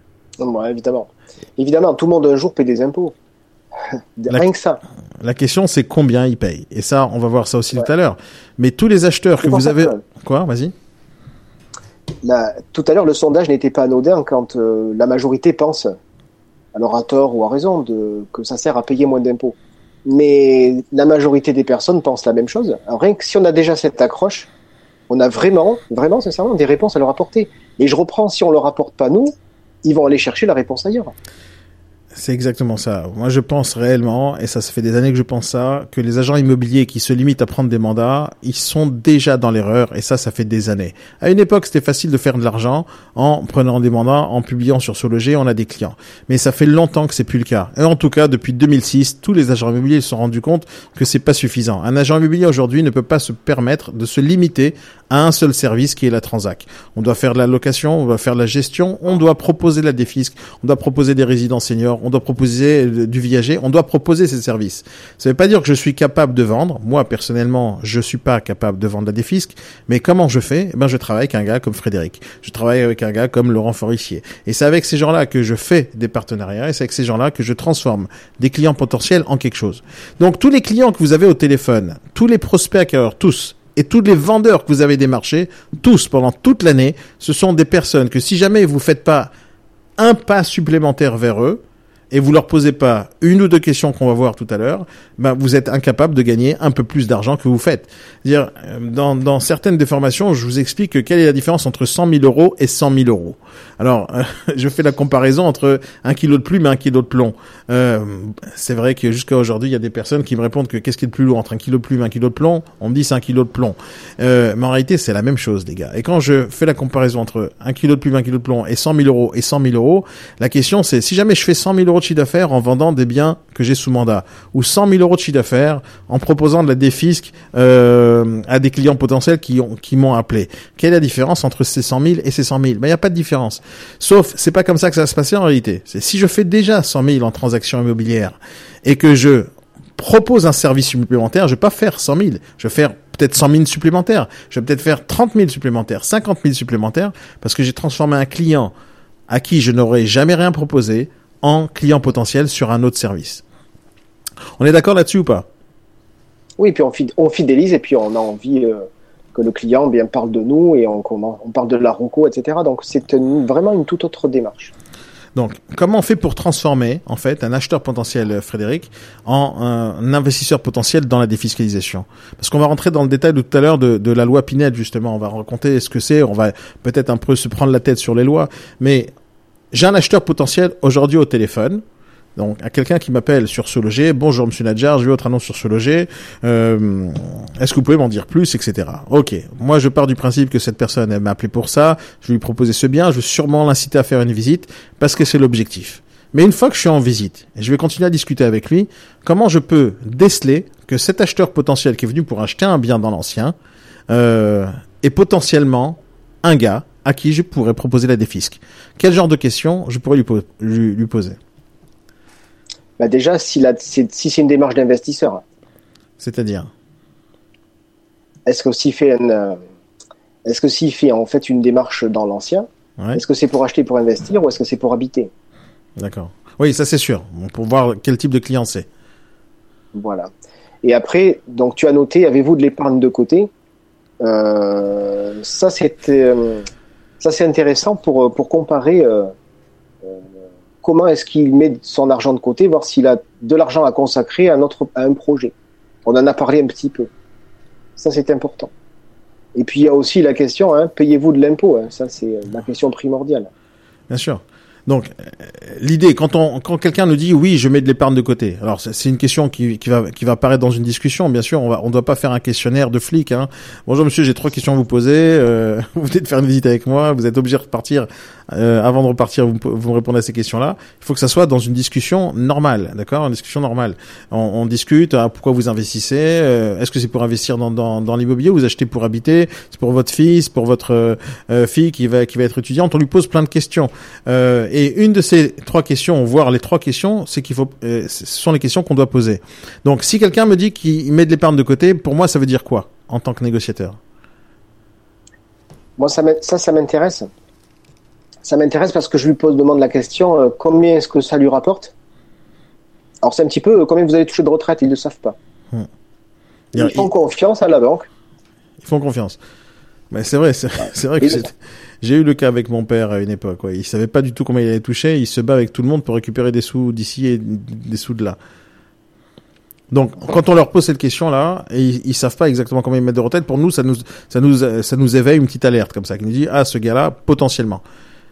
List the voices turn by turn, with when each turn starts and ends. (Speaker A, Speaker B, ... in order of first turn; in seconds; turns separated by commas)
Speaker A: 0.4-3.1, Speaker A: 4.2-4.8, Speaker B: 5.2-10.7, Speaker A: 9.4-10.0, Speaker A: 12.2-16.0, Speaker A: 16.7-24.5, Speaker A: 25.1-31.1, Speaker B: 32.2-89.3, Speaker B: 90.0-91.6, Speaker B: 92.1-148.7, Speaker B: 149.3-153.4, Speaker B: 154.6-155.5, Speaker A: 156.6-164.7, Speaker B: 165.4-179.1, Speaker B: 179.7-181.8, Speaker B: 182.4-203.6, Speaker B: 204.1-211.4, Speaker A: 213.0-215.4, Speaker B: 216.2-216.7, Speaker A: 218.5-219.6, Speaker A: 220.4-225.3, Speaker B: 226.0-228.9, Speaker A: 229.9-230.3, Speaker A: 230.8-233.5, Speaker A: 234.2-236.7, Speaker A: 237.2-239.3, Speaker A: 240.8-245.5, Speaker A: 246.1-247.1, Speaker A: 248.0-248.7, Speaker A: 249.6-253.5, Speaker B: 254.1-294.0, Speaker A: 296.0-297.3, Speaker A: 298.4-301.9, Speaker A: 303.2-305.4, Speaker B: 306.8-307.1, Speaker A: 306.8-308.1, Speaker B: 308.8-309.4, Speaker B: 310.1-318.4, Speaker B: 319.9-327.8